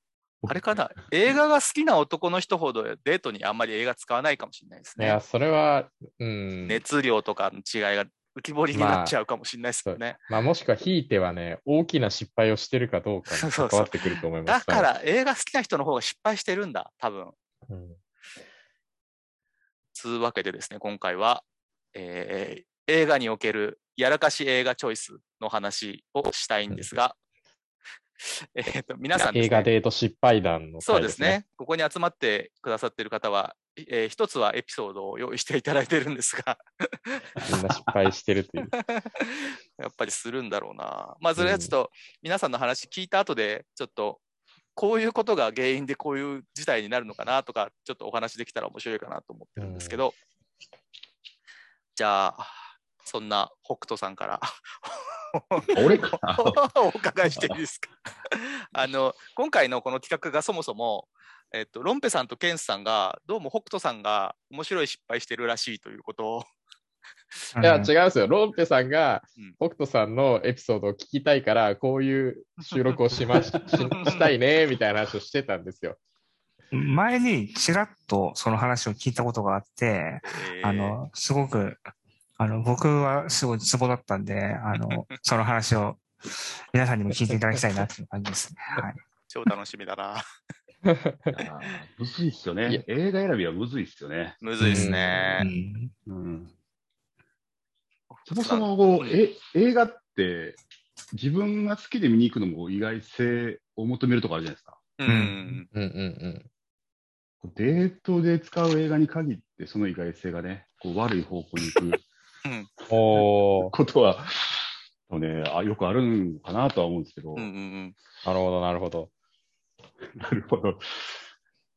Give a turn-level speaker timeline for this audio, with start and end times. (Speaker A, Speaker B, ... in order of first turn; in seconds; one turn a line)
Speaker A: 0.5-5.2
Speaker B: 5.0-6.8
Speaker A: 6.6-10.2
Speaker B: 8.7-9.2
Speaker B: 9.8-14.9
Speaker A: 13.3-13.9
Speaker A: 14.4-17.3
Speaker B: 17.7-18.0
Speaker A: 19.9-27.2
Speaker A: 28.2-29.7
Speaker B: 29.1-31.4
Speaker A: 30.8-37.3
Speaker B: 37.4-38.7
Speaker A: 38.8-44.2
Speaker B: 41.4-41.7
Speaker A: 44.7-50.1
Speaker B: 49.6-50.0
Speaker A: 51.9-55.8
Speaker C: 55.7-56.6
Speaker A: 56.4-66.5
Speaker C: 57.3-57.6
Speaker D: 67.5-67.9
Speaker B: 67.6-76.0
Speaker D: 76.7-89.0
Speaker A: 80.2-81.0
Speaker B: 87.3-87.8
Speaker A: 89.3-90.2
Speaker B: 90.8-91.4
Speaker C: 91.4-94.4
Speaker A: 94.4-95.5
Speaker D: 94.6-95.9
Speaker B: 94.6-95.4
Speaker C: 96.1-96.5
Speaker A: 98.1-99.2
Speaker C: 98.3-100.6
Speaker C: 101.1-104.8
Speaker A: 105.0-105.7
Speaker D: 105.1-105.6
Speaker B: 105.7-106.5
Speaker C: 107.4-112.0
Speaker C: 112.9-117.5
Speaker B: 112.9-113.7
Speaker A: 117.3-117.9
Speaker B: 118.2-119.1
Speaker C: 120.2-121.2